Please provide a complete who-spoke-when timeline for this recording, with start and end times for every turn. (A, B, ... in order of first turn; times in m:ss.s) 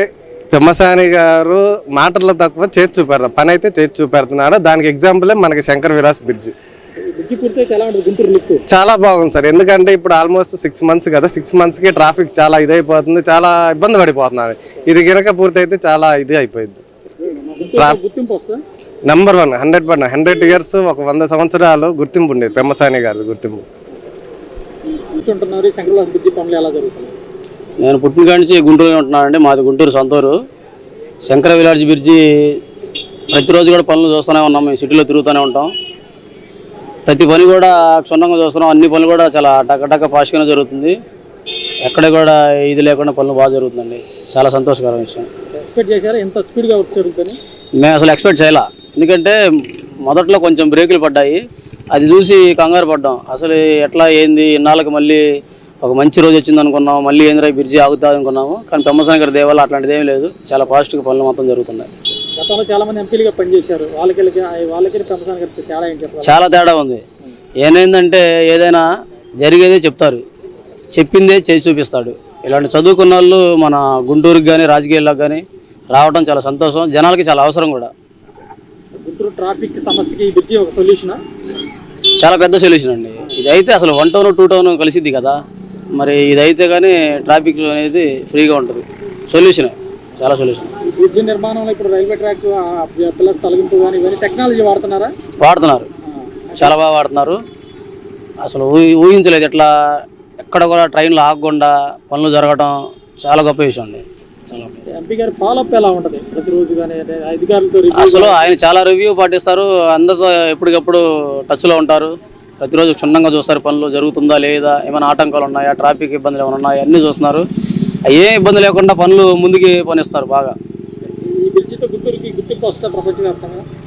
0:00.5-0:06.5 A
0:07.0-0:08.6 B
0:08.7-0:16.8 A
0:17.2-0:18.6 B
0:17.8-0:18.0 A
0:19.1-0:23.6 A
0:25.1-0:27.1 B
0:27.8-0:30.3 C
0:31.2-0:32.6 C
0:33.3-0:35.7 C
0:37.0-0:40.9 C
0:41.8-0:45.3 C
0:45.5-0:47.4 B
0:47.8-0:49.4 C
0:50.0-0:51.4 C
0:51.9-0:55.2 C
0:55.8-1:01.9 C
1:02.4-1:06.5 B
1:06.2-1:07.0 C
1:07.6-1:08.9 C
1:09.4-1:10.2 C
1:10.9-1:17.9 C
1:19.0-1:21.2 B
1:22.2-1:25.4 C
1:26.0-1:30.8 C
1:30.8-1:35.1 B
1:35.4-1:35.9 C
1:36.6-1:37.4 C
1:38.4-1:39.7 C
1:40.4-1:44.8 C
1:44.9-1:48.4 B
1:47.9-1:57.4 C
1:58.1-2:00.5 C
2:01.3-2:03.6 B